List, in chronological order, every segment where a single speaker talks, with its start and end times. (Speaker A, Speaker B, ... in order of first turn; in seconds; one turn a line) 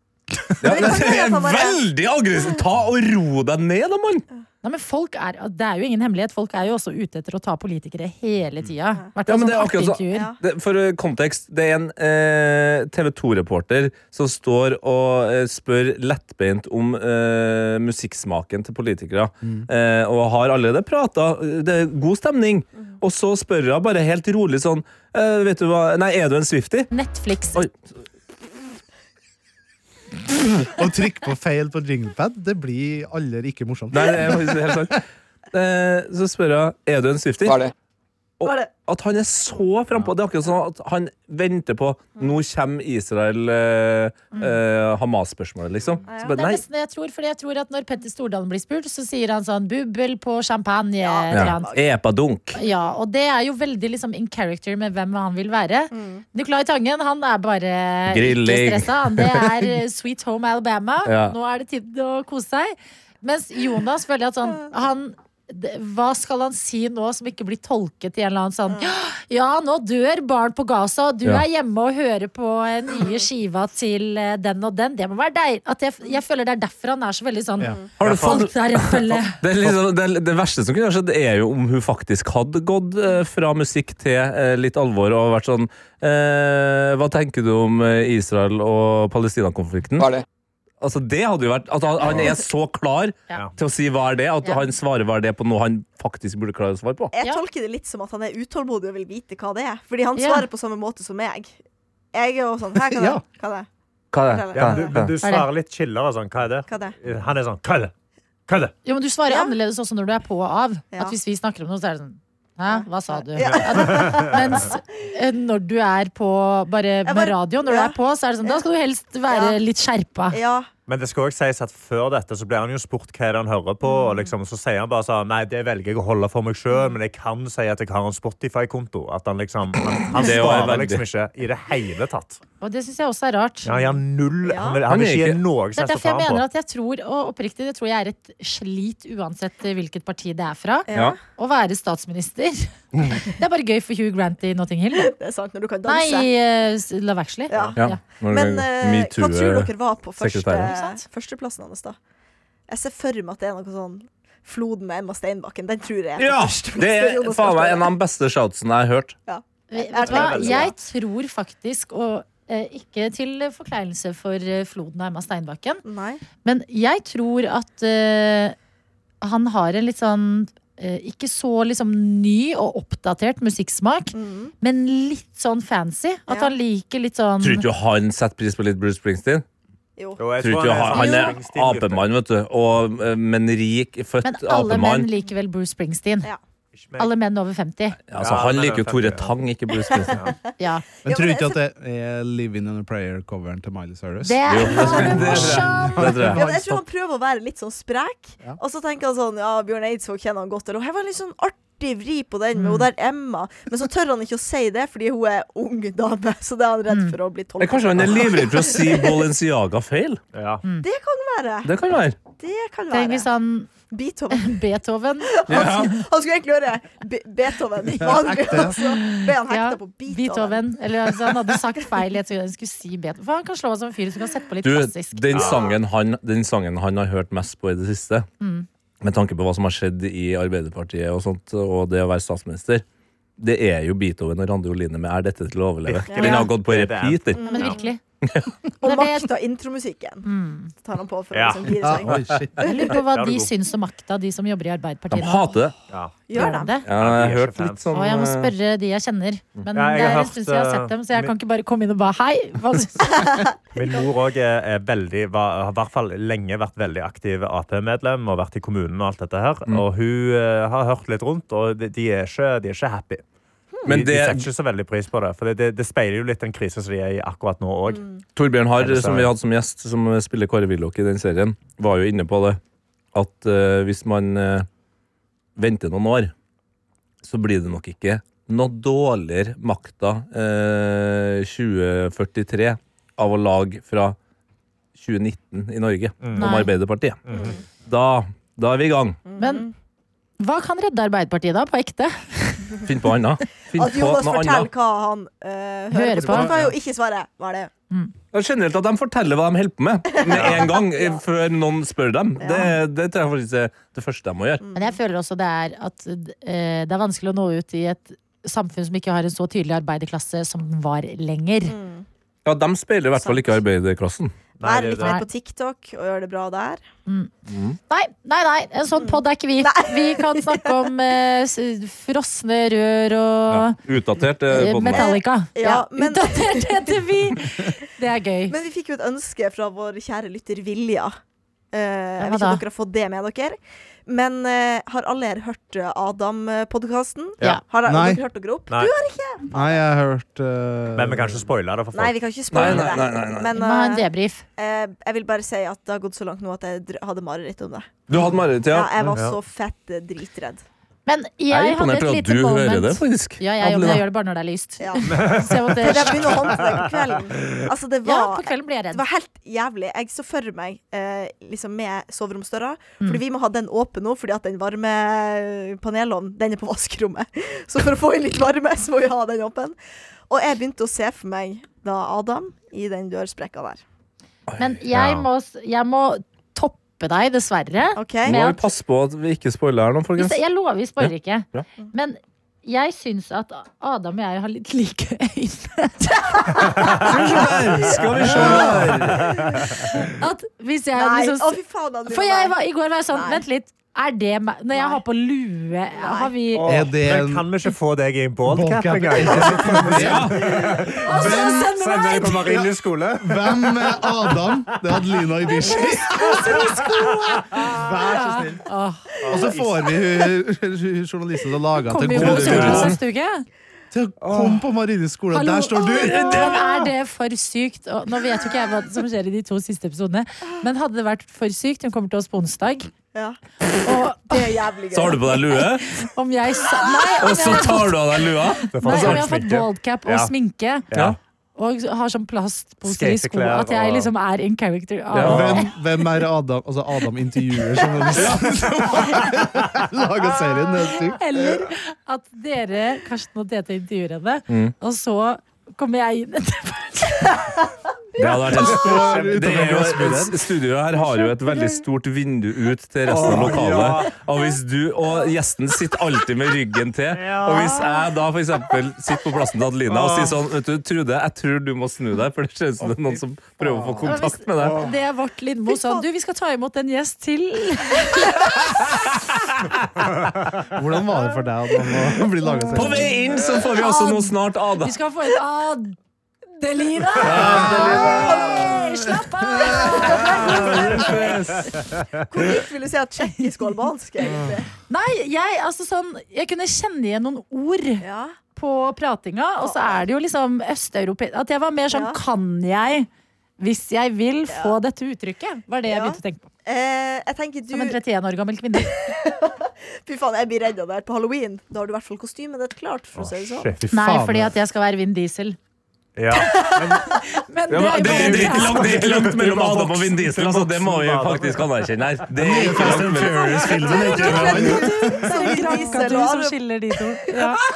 Speaker A: 0.6-4.2
Speaker B: 0.6-1.9
Speaker C: 4.6-10.3
Speaker A: 9.2-26.9
Speaker B: 10.1-10.4
Speaker C: 26.9-27.6
Speaker D: 30.6-35.0
Speaker A: 33.9-37.7
Speaker A: 38.4-46.6
Speaker B: 38.4-38.7
Speaker B: 46.0-46.4
Speaker C: 46.2-51.8
Speaker B: 51.0-51.8
Speaker A: 51.3-52.6
Speaker C: 52.5-79.4
Speaker B: 55.9-56.2
Speaker A: 58.1-59.7
Speaker A: 61.0-61.4
Speaker B: 73.0-73.2
Speaker A: 78.0-90.2
Speaker A: 90.8-97.1
Speaker C: 94.4-94.7
Speaker B: 97.1-101.6
Speaker C: 100.2-100.5
Speaker B: 102.1-103.7
Speaker D: 102.9-103.2
Speaker A: 104.1-105.1
Speaker B: 104.2-104.9
Speaker E: 104.5-107.9
Speaker C: 105.2-105.5
Speaker B: 106.7-107.0
Speaker E: 108.5-108.7
Speaker C: 108.8-120.4
Speaker B: 109.3-109.5
Speaker B: 112.7-114.8
Speaker E: 113.4-114.3
Speaker B: 117.0-117.9
Speaker B: 119.3-119.6
Speaker B: 120.3-120.7
Speaker E: 120.9-132.4
Speaker B: 123.8-124.3
Speaker A: 130.1-131.0
Speaker C: 132.6-133.9
Speaker E: 133.7-136.4
Speaker B: 134.4-134.8
Speaker A: 134.9-135.4
Speaker C: 135.8-145.1
Speaker B: 140.9-141.2
Speaker B: 144.9-146.3
Speaker C: 145.9-148.0
Speaker B: 147.5-152.0
Speaker A: 147.8-150.7
Speaker C: 150.6-151.0
Speaker B: 152.7-157.9
Speaker A: 156.2-159.2
Speaker B: 159.3-160.7
Speaker C: 159.7-165.8
Speaker E: 160.1-160.7
Speaker B: 165.8-166.2
Speaker C: 166.4-168.6
Speaker C: 169.2-177.7
Speaker B: 174.1-174.5
Speaker B: 176.3-176.5
Speaker A: 177.4-179.4
Speaker B: 180.0-180.3
Speaker E: 180.2-182.1
Speaker A: 180.4-185.1
Speaker C: 180.9-181.4
Speaker C: 184.2-186.3
Speaker E: 186.7-187.1
Speaker C: 187.0-188.0
Speaker A: 188.1-190.2
Speaker E: 188.2-189.3
Speaker B: 189.8-190.5
Speaker E: 190.1-190.3
Speaker C: 190.6-190.8
Speaker B: 191.0-191.6
Speaker D: 191.0-196.8
Speaker C: 194.2-196.2
Speaker A: 194.5-196.7
Speaker B: 194.7-209.3
Speaker C: 202.5-202.9
Speaker C: 206.9-207.2
Speaker A: 207.6-210.2
Speaker E: 210.3-210.6
Speaker B: 210.8-211.7
Speaker A: 211.7-212.2
Speaker B: 212.4-213.3
Speaker C: 212.9-213.7
Speaker B: 213.9-214.6
Speaker C: 214.3-215.9
Speaker B: 215.3-220.6
Speaker A: 215.5-216.0
Speaker D: 217.9-219.0
Speaker C: 218.6-225.5
Speaker B: 221.2-221.9
Speaker A: 224.6-228.3
Speaker E: 225.3-225.7
Speaker B: 225.4-225.7
Speaker C: 228.4-228.7
Speaker A: 229.0-232.8
Speaker A: 233.4-237.6
Speaker E: 235.8-237.8
Speaker B: 236.1-236.5
Speaker B: 237.4-237.9
Speaker C: 237.4-238.0
Speaker A: 238.2-238.5
Speaker C: 238.8-239.3
Speaker B: 238.8-243.0
Speaker C: 240.2-240.7
Speaker E: 241.3-241.8
Speaker D: 241.8-242.6
Speaker C: 242.6-245.6
Speaker E: 242.9-243.5
Speaker A: 245.1-245.8
Speaker E: 245.9-246.2
Speaker B: 246.3-246.8
Speaker C: 246.3-246.9
Speaker A: 246.8-248.5
Speaker E: 246.9-247.9
Speaker C: 247.9-253.3
Speaker E: 249.7-251.3
Speaker B: 253.0-253.5
Speaker E: 253.8-263.2
Speaker E: 263.8-268.0
Speaker A: 263.8-264.5
Speaker B: 267.9-268.2
Speaker A: 268.4-272.6
Speaker E: 268.8-269.3
Speaker A: 273.1-274.7
Speaker A: 275.6-276.3
Speaker A: 277.2-284.2
Speaker A: 284.9-287.3
Speaker E: 286.2-286.5
Speaker C: 286.4-286.7
Speaker E: 287.2-287.6
Speaker B: 287.3-287.6
Speaker A: 287.9-289.2
Speaker B: 289.2-289.7
Speaker C: 289.4-289.7
Speaker C: 290.4-292.8
Speaker A: 292.8-294.7
Speaker B: 293.7-297.7
Speaker C: 295.9-296.5
Speaker D: 296.3-296.7
Speaker A: 298.3-304.6
Speaker B: 300.1-301.2
Speaker B: 302.4-302.8
Speaker B: 304.6-305.0
Speaker C: 304.7-311.8
Speaker B: 311.7-312.1
Speaker A: 312.4-314.3
Speaker B: 313.2-313.6
Speaker E: 314.6-315.2
Speaker B: 314.6-316.8
Speaker C: 315.0-315.2
Speaker C: 317.1-317.3
Speaker A: 317.5-317.8
Speaker C: 317.9-323.8
Speaker B: 319.0-320.8
Speaker A: 323.5-325.1
Speaker C: 324.5-328.6
Speaker B: 324.9-327.7
Speaker B: 328.5-331.1
Speaker B: 331.7-339.8
Speaker C: 332.2-332.6
Speaker D: 337.8-338.2
Speaker D: 339.5-341.5
Speaker E: 340.9-343.0
Speaker B: 341.9-348.0
Speaker A: 342.5-343.5
Speaker C: 343.5-344.5
Speaker A: 348.1-348.9
Speaker B: 348.7-350.6
Speaker E: 349.1-349.4
Speaker C: 351.1-356.2
Speaker A: 351.5-354.0
Speaker B: 354.8-369.8
Speaker E: 355.1-357.6
Speaker C: 358.0-359.0
Speaker B: 370.3-373.8
Speaker C: 374.6-378.7
Speaker E: 374.9-375.2
Speaker B: 378.0-378.4
Speaker A: 378.2-380.4
Speaker C: 380.1-387.5
Speaker A: 381.0-381.6
Speaker A: 387.0-389.4
Speaker C: 388.2-388.7
Speaker D: 388.2-389.2
Speaker E: 388.9-389.7
Speaker C: 389.8-391.6
Speaker B: 390.9-392.6
Speaker C: 392.1-396.6
Speaker B: 393.1-393.4
Speaker B: 394.7-395.0
Speaker B: 395.9-396.3
Speaker E: 396.5-404.5
Speaker D: 396.6-397.5
Speaker D: 398.4-408.6
Speaker A: 400.0-400.9
Speaker C: 401.0-402.4
Speaker C: 405.6-409.1
Speaker E: 407.6-408.6
Speaker E: 409.2-410.0
Speaker D: 409.3-413.0
Speaker C: 411.8-413.5
Speaker A: 412.1-413.0
Speaker D: 413.9-416.6
Speaker E: 414.2-414.6
Speaker C: 415.3-422.9
Speaker A: 415.9-416.7
Speaker C: 423.8-424.5
Speaker B: 424.2-425.6
Speaker A: 424.9-425.8
Speaker C: 425.5-430.9
Speaker A: 427.2-429.3
Speaker E: 428.7-430.3
Speaker E: 430.9-431.2
Speaker A: 430.9-431.2
Speaker C: 431.6-435.7
Speaker E: 432.8-434.1
Speaker A: 435.1-435.6
Speaker D: 435.2-441.4
Speaker A: 438.1-438.8
Speaker C: 440.9-447.6
Speaker A: 444.5-444.8
Speaker A: 448.2-464.9
Speaker D: 448.6-450.5
Speaker E: 448.9-450.0
Speaker E: 453.1-454.1
Speaker D: 453.2-453.6
Speaker E: 457.1-457.8
Speaker E: 459.9-460.3
Speaker D: 463.6-464.0
Speaker C: 464.0-469.1
Speaker E: 464.6-464.9
Speaker B: 465.7-466.0
Speaker A: 468.6-469.5
Speaker D: 470.7-473.1
Speaker A: 472.7-474.9
Speaker C: 473.6-476.0
Speaker C: 476.6-481.7
Speaker A: 477.2-478.7
Speaker D: 477.3-480.3
Speaker A: 480.2-481.9
Speaker B: 482.3-484.7
Speaker C: 484.9-488.0
Speaker B: 488.0-488.4
Speaker C: 488.5-493.1
Speaker B: 489.6-490.0
Speaker B: 491.9-492.2
Speaker C: 493.6-496.5
Speaker B: 494.5-494.8
Speaker B: 495.9-498.0
Speaker C: 497.7-499.0
Speaker B: 498.8-503.7
Speaker E: 503.1-503.9
Speaker D: 503.9-504.5
Speaker C: 503.9-505.6
Speaker E: 506.2-507.1
Speaker C: 506.3-508.9
Speaker A: 507.7-514.6
Speaker E: 508.1-511.8
Speaker D: 512.3-515.8
Speaker B: 513.4-516.6
Speaker C: 513.7-517.6
Speaker B: 517.3-517.5